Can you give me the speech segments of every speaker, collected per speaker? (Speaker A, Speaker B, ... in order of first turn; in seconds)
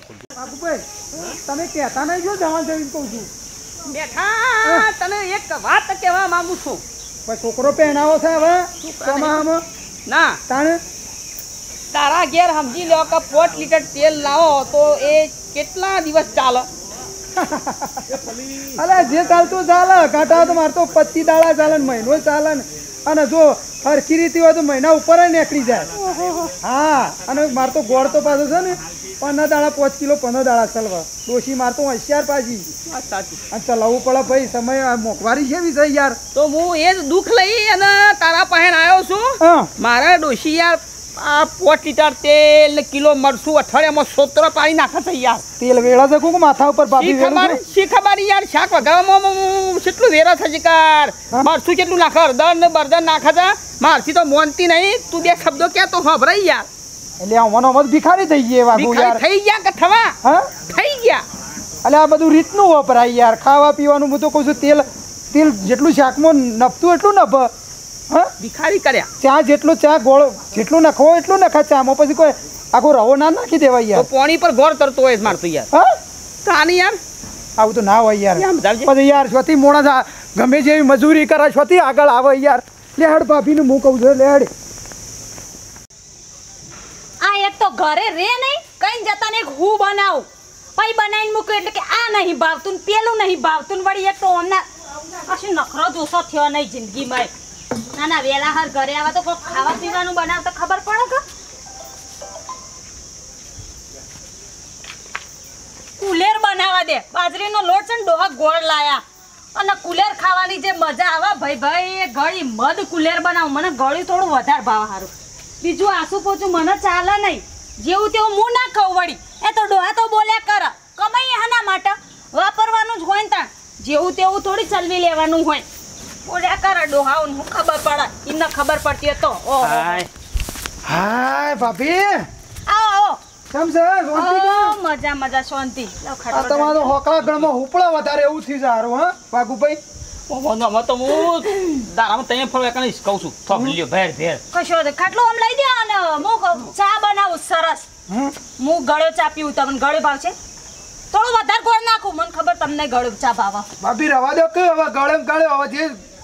Speaker A: 0.4-3.3, 4.6-4.9, 7.2-9.6, 10.5-10.8, 17.4-18.0, 18.8-25.9, 26.6-32.7, 33.5-36.2, 39.4-39.7, 45.6-47.6, 57.2-59.2, 60.2-60.5, 61.8-67.5, 69.2-74.1, 77.6-84.5, 130.8-132.2, 133.5-134.8, 136.3-139.8, 143.5-143.8, 148.1-148.3, 153.8-155.9
Speaker B: 3.9-6.8, 8.8-9.4, 10.1-10.4, 11.9-16.7, 26.0-26.5, 32.9-33.4, 36.3-45.4, 47.0-56.7, 58.7-60.1, 60.7-61.2, 68.4-69.1, 73.9-75.7, 76.4-77.0, 78.3-78.9, 129.6-130.1, 137.2-137.5, 140.3-144.4
Speaker C: 87.2-94.6, 95.2-97.3, 97.9-101.2, 106.0-109.0, 109.5-125.6, 126.2-130.0, 132.7-133.2, 134.1-136.9, 144.5-147.8, 148.6-150.3, 151.1-153.7